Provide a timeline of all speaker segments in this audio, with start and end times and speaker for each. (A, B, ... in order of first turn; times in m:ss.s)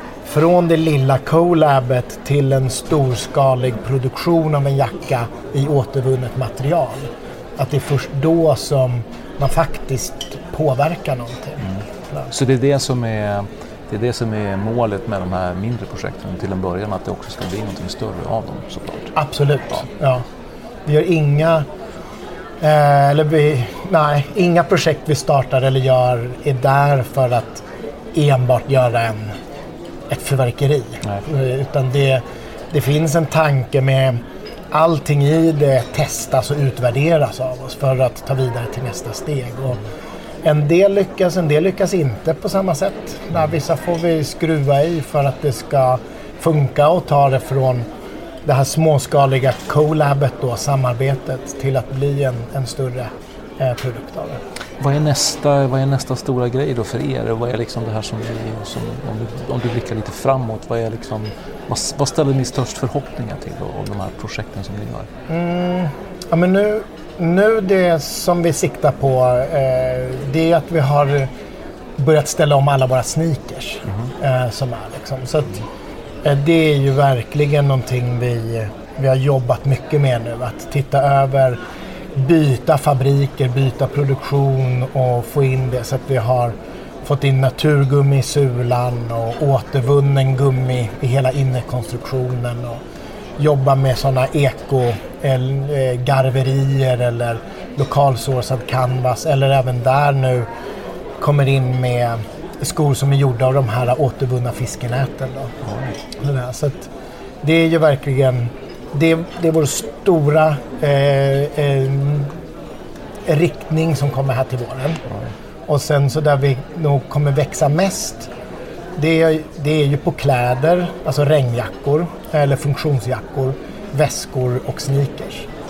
0:00.2-0:12.3 A
0:11.6-0:19.1 B
0:19.1-0:20.2 A
0:20.8-0:21.6 A
0:22.6-0:29.3 A
0:30.1-0:34.2 A
0:34.7-0:39.8 A
0:40.4-0:47.8 A
0:48.4-0:54.4 A
0:54.8-1:05.1 B
1:05.3-1:11.3 A
1:12.0-1:15.6 A
1:16.2-1:21.6 A
1:22.2-1:32.8 A
1:33.4-1:40.5 A
1:41.2-1:45.5 A
1:45.6-1:45.9 B
1:46.1-1:46.9 A
1:47.4-1:52.4 A
1:53.2-1:55.0 A
1:55.7-1:58.3 A
1:59.0-2:05.5 A